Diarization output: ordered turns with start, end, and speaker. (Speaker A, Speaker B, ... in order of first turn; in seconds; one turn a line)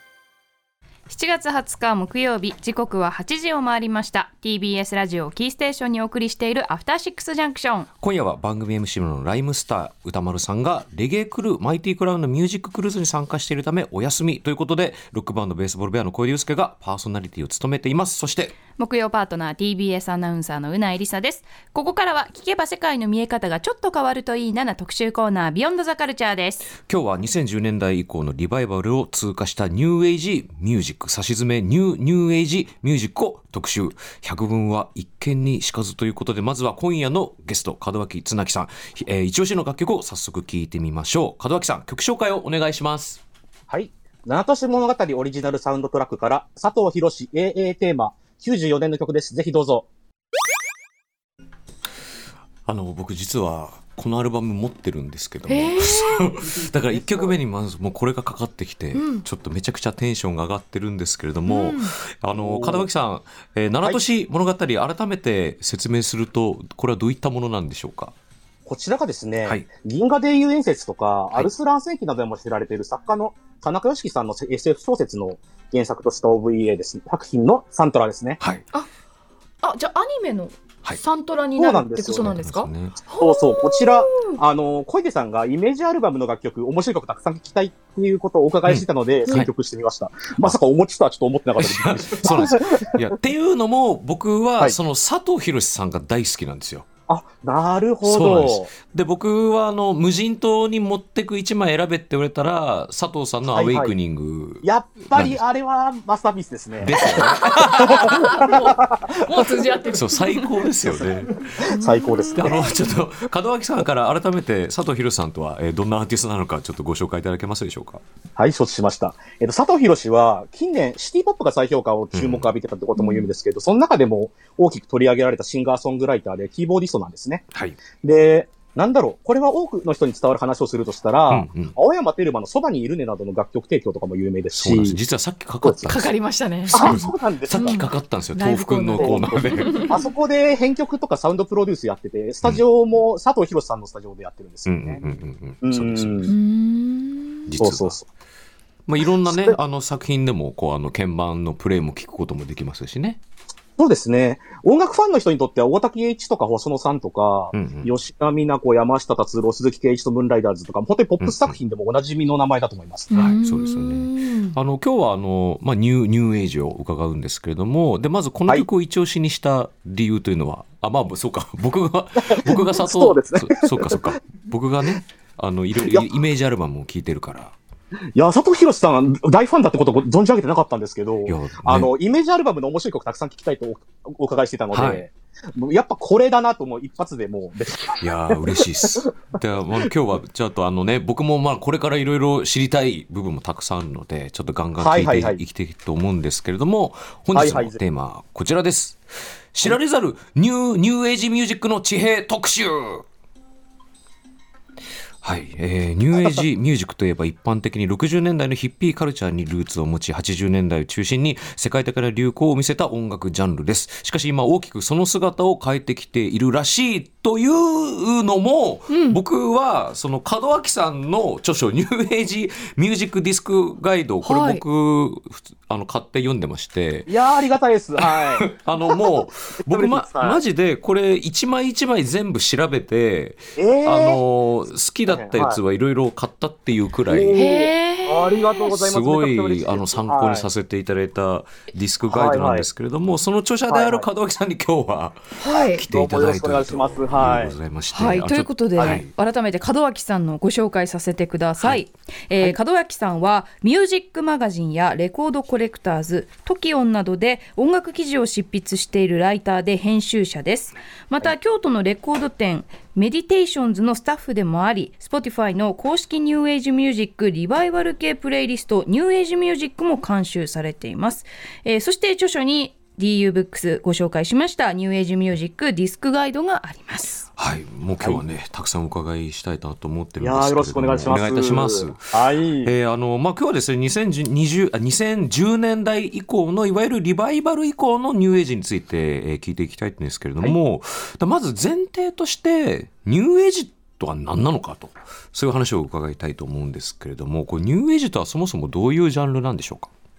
Speaker A: 1.1-7.9
Speaker B: 8.0-18.6
Speaker A: 18.8-26.7
Speaker B: 26.8-43.2
Speaker C: 43.7-49.9
Speaker B: 52.7-68.1
Speaker A: 55.5-56.4
Speaker C: 56.9-57.3
Speaker A: 58.9-59.2
Speaker A: 61.5-61.9
Speaker C: 62.3-62.9
Speaker C: 68.7-78.4
Speaker B: 78.4-78.7
Speaker A: 79.6-84.4
Speaker C: 81.6-82.4
Speaker B: 82.2-83.0
Speaker C: 83.1-93.1
Speaker B: 88.7-89.5
Speaker B: 91.6-96.9
Speaker C: 97.1-98.7
Speaker B: 98.0-105.4
Speaker C: 103.5-103.9
Speaker C: 104.6-109.5
Speaker B: 106.8-108.4
Speaker A: 107.0-110.7
Speaker B: 109.9-111.8
Speaker C: 111.6-112.8
Speaker A: 111.7-112.8
Speaker B: 112.3-118.0
Speaker C: 118.4-127.5
Speaker B: 122.1-122.5
Speaker A: 123.0-123.3
Speaker B: 127.5-127.8
Speaker C: 128.0-135.0
Speaker B: 131.3-131.8
Speaker B: 134.5-136.1
Speaker C: 135.6-135.9
Speaker A: 135.9-137.0
Speaker B: 136.7-140.0
Speaker C: 136.7-137.8
Speaker A: 137.6-140.1
Speaker C: 139.0-145.1
Speaker B: 144.7-146.3
Speaker C: 145.6-146.3
Speaker A: 146.3-147.6
Speaker B: 147.5-148.0
Speaker C: 147.6-148.1
Speaker B: 148.9-153.2
Speaker C: 149.2-149.6
Speaker C: 153.8-163.4
Speaker B: 157.5-157.9
Speaker B: 161.2-161.6
Speaker A: 163.1-164.6
Speaker B: 163.1-177.6
Speaker C: 172.2-174.1
Speaker C: 175.8-176.1
Speaker C: 178.2-189.1
Speaker B: 181.3-181.9
Speaker B: 184.7-185.1
Speaker B: 188.0-203.1
Speaker C: 194.8-195.4
Speaker C: 197.3-197.8
Speaker B: 205.2-227.1
Speaker A: 218.9-219.2
Speaker A: 224.2-224.6
Speaker C: 227.1-229.0
Speaker B: 228.0-237.4
Speaker C: 229.6-230.4
Speaker C: 233.6-234.2
Speaker C: 235.1-235.6
Speaker C: 237.1-240.5
Speaker A: 237.4-238.7
Speaker B: 238.7-249.1
Speaker C: 242.1-242.7
Speaker C: 243.7-244.1
Speaker A: 245.4-245.8
Speaker C: 245.9-247.6
Speaker A: 247.9-277.3
Speaker C: 248.8-249.1
Speaker B: 277.4-299.9
Speaker C: 280.2-282.7